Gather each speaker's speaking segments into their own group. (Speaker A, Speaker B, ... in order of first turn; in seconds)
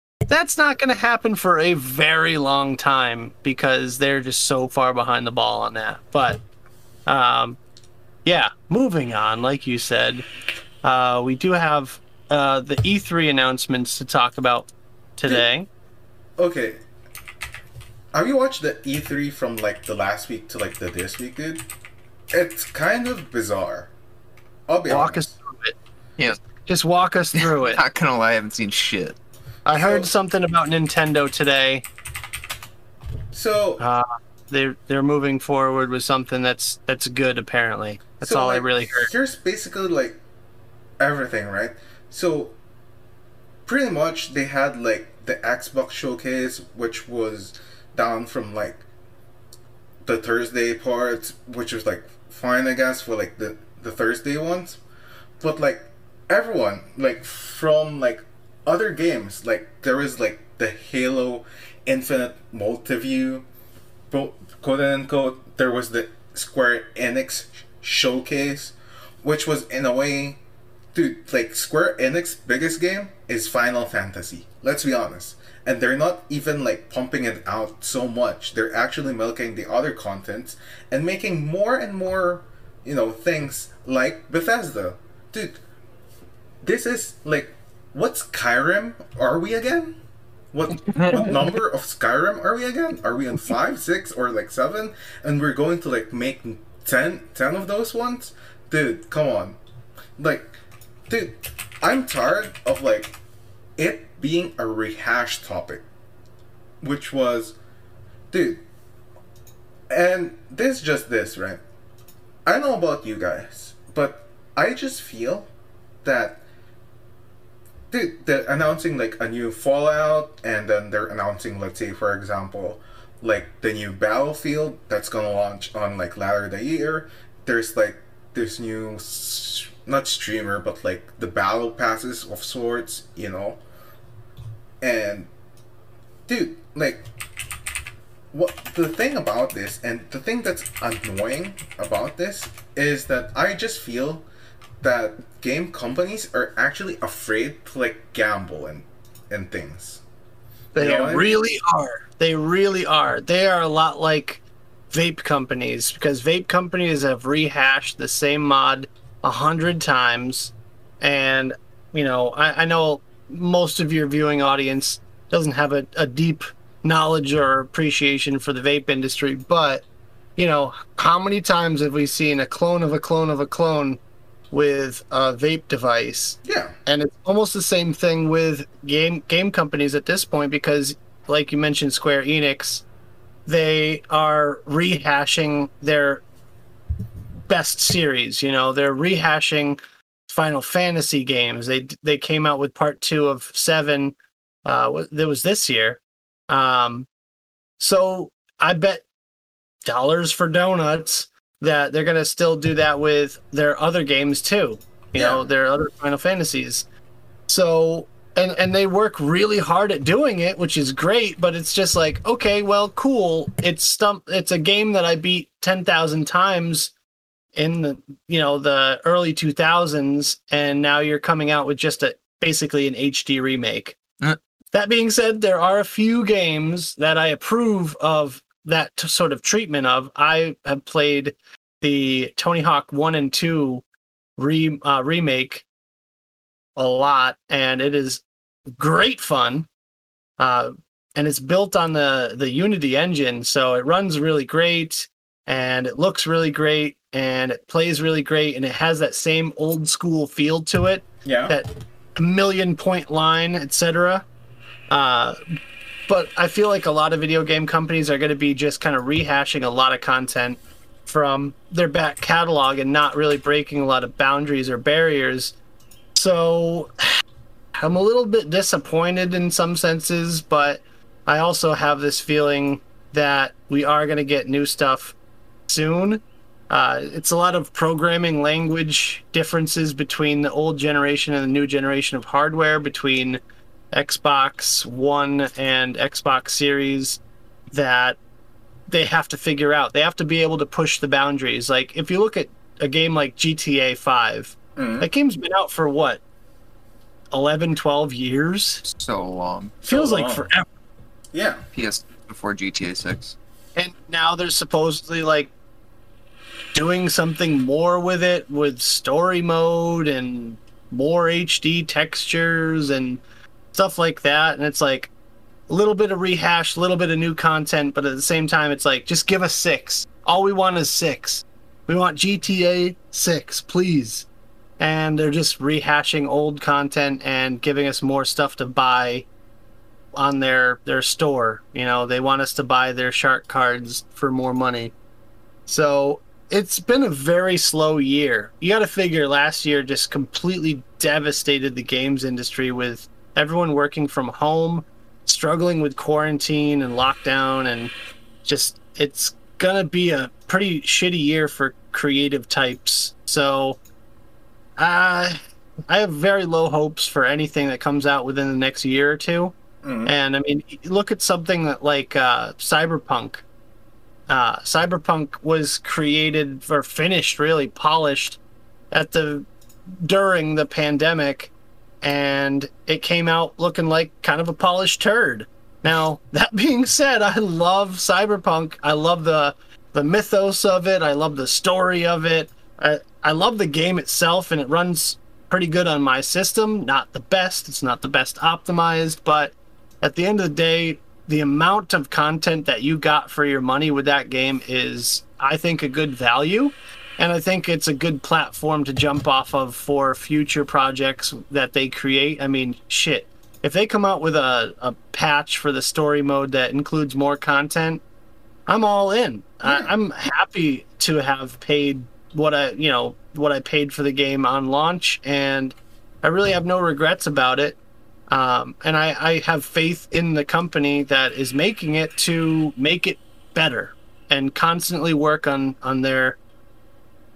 Speaker A: 0.3-6.4, 7.0-7.6, 8.2-10.2, 10.8-15.7, 24.9-25.7, 26.7-27.8, 29.6-31.8, 33.8-39.1, 150.7-169.8, 170.4-174.0, 174.5-182.8, 183.4-186.2, 187.5-197.1, 197.8-199.0, 199.8-206.8, 207.5-216.9, 217.5-224.0, 224.7-233.8, 234.4-235.7, 236.8-238.2, 238.7-239.7, 240.4-254.2, 254.9-255.4, 256.1-265.5, 266.1-266.9, 267.8-275.1, 275.7-283.4, 283.9-287.2, 287.7-288.2, 288.9-296.2, 297.3-298.8, 299.9-300.6, 303.8-305.5, 306.7-313.2, 313.7-315.1, 315.7-324.2, 324.8-329.2, 330.1-334.9, 335.7-347.9, 348.4-353.8, 354.8-359.5, 360.1-363.4, 364.3-368.4, 368.9-369.5, 370.0-371.5, 372.0-408.0, 408.7-417.8, 418.3-426.4
Speaker B: 16.4-16.8, 18.1-21.6, 22.3-23.9, 24.7-25.3, 29.8-30.1, 33.3-33.8, 38.2-40.2, 41.0-42.6, 43.6-48.8, 50.0-54.8, 55.4-63.5, 64.1-70.4, 70.9-85.6, 86.6-90.0, 90.5-99.6, 100.2-100.5, 101.1-103.2, 103.8-105.8, 106.8-107.5, 108.3-108.6, 109.9-111.6, 112.4-115.5, 116.0-116.4, 117.9-133.6, 134.8-135.3, 136.3-137.0, 138.3-144.2, 144.8-150.0, 150.8-151.3, 176.4-176.7, 205.2-205.4, 251.2-251.6, 294.8-295.1, 299.8-300.5, 301.3-301.6, 359.8-360.1, 409.6-409.9
Speaker C: 27.3-29.2, 90.9-91.3, 298.8-299.8, 301.7-303.4